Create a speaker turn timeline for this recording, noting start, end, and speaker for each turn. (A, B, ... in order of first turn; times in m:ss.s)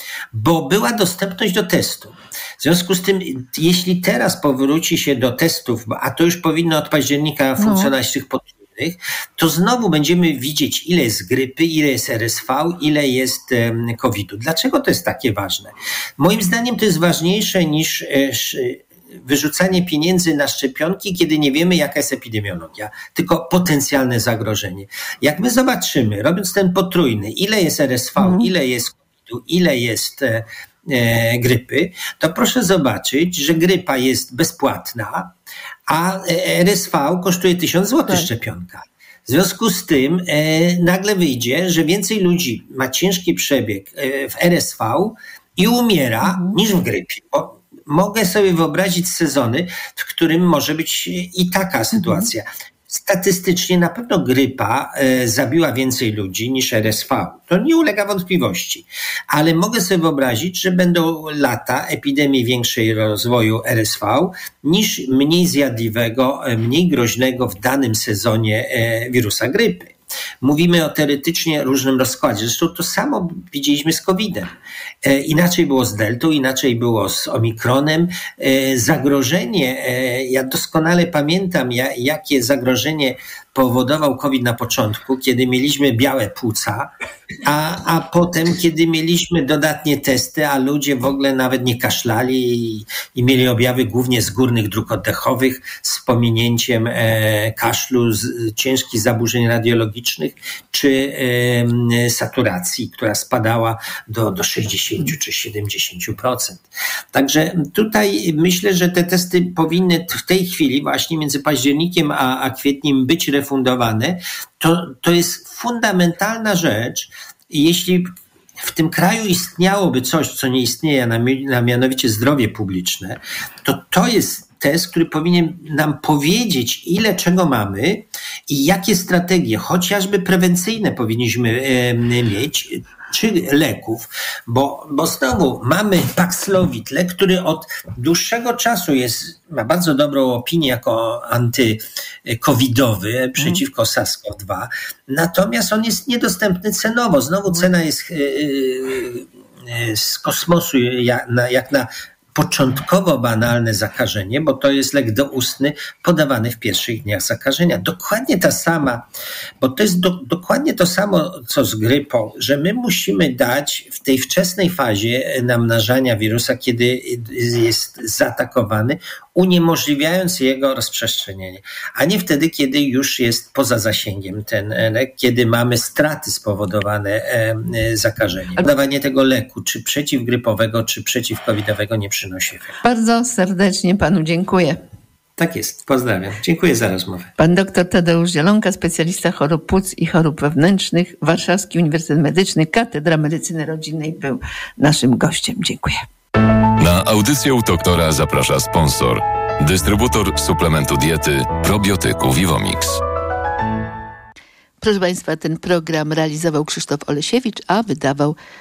0:00.3-0:35.3 A
0:07.6-0:07.9 B
0:28.2-0:28.5 B
0:35.9-1:26.9 A
0:46.2-0:46.6 B
0:51.9-0:52.3 B
1:27.4-2:39.0 A
2:39.6-3:02.7 A
3:02.8-3:04.8 B
3:05.4-3:07.3 A
3:07.4-3:16.0 B
3:16.8-3:23.0 C
3:24.8-3:28.4 B